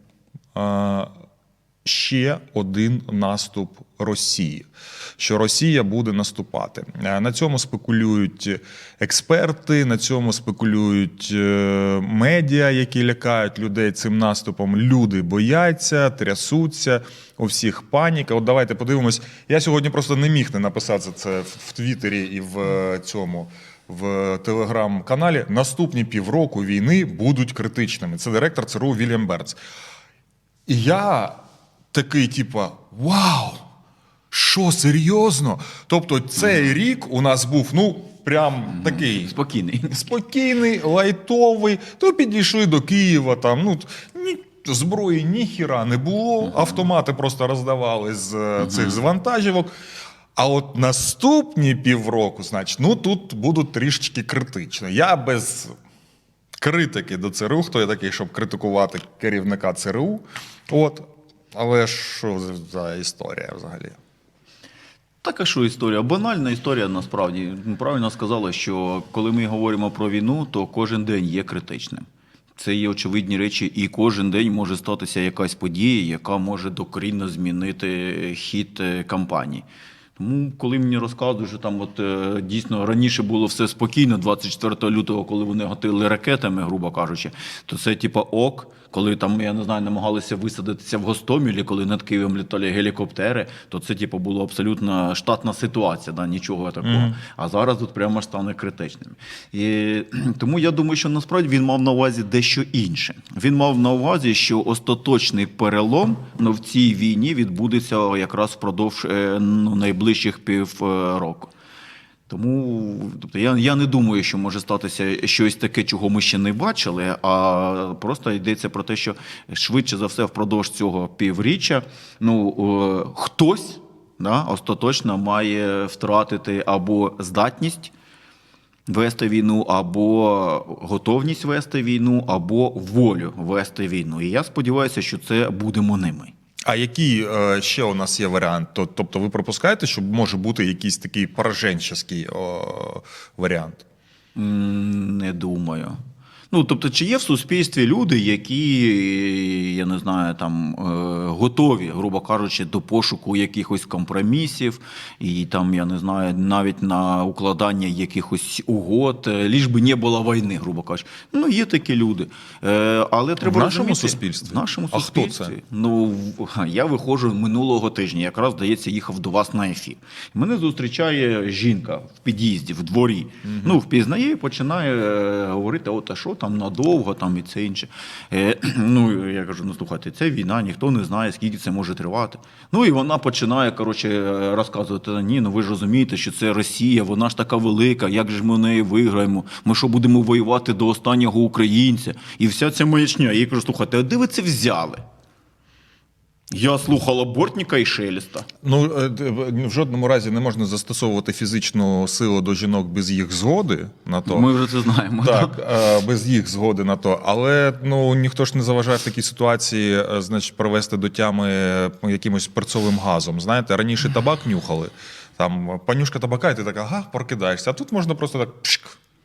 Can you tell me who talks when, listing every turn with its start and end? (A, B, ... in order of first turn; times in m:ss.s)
0:00.5-0:01.1 A
0:01.8-0:04.7 A
0:05.2-0:29.6 A
0:30.7-0:31.4 A
0:31.9-0:33.6 A
0:34.3-0:39.3 A
0:38.7-0:40.0 B
0:39.9-0:49.7 A
0:48.6-0:49.0 B
0:50.4-0:55.7 A
0:56.6-1:04.0 A
1:05.2-1:12.0 B
1:12.6-1:19.6 B
1:20.2-1:51.5 B
1:36.8-1:37.2 A
1:52.3-2:07.9 B
2:08.9-2:16.3 B
2:16.6-2:23.8 A
2:24.3-2:26.0 B
2:26.5-3:15.0 B
2:43.4-2:45.5 A
2:53.4-2:53.8 A
3:16.5-3:18.5 B
3:18.6-3:24.5 A
3:24.2-3:25.6 B
3:25.2-3:39.0 A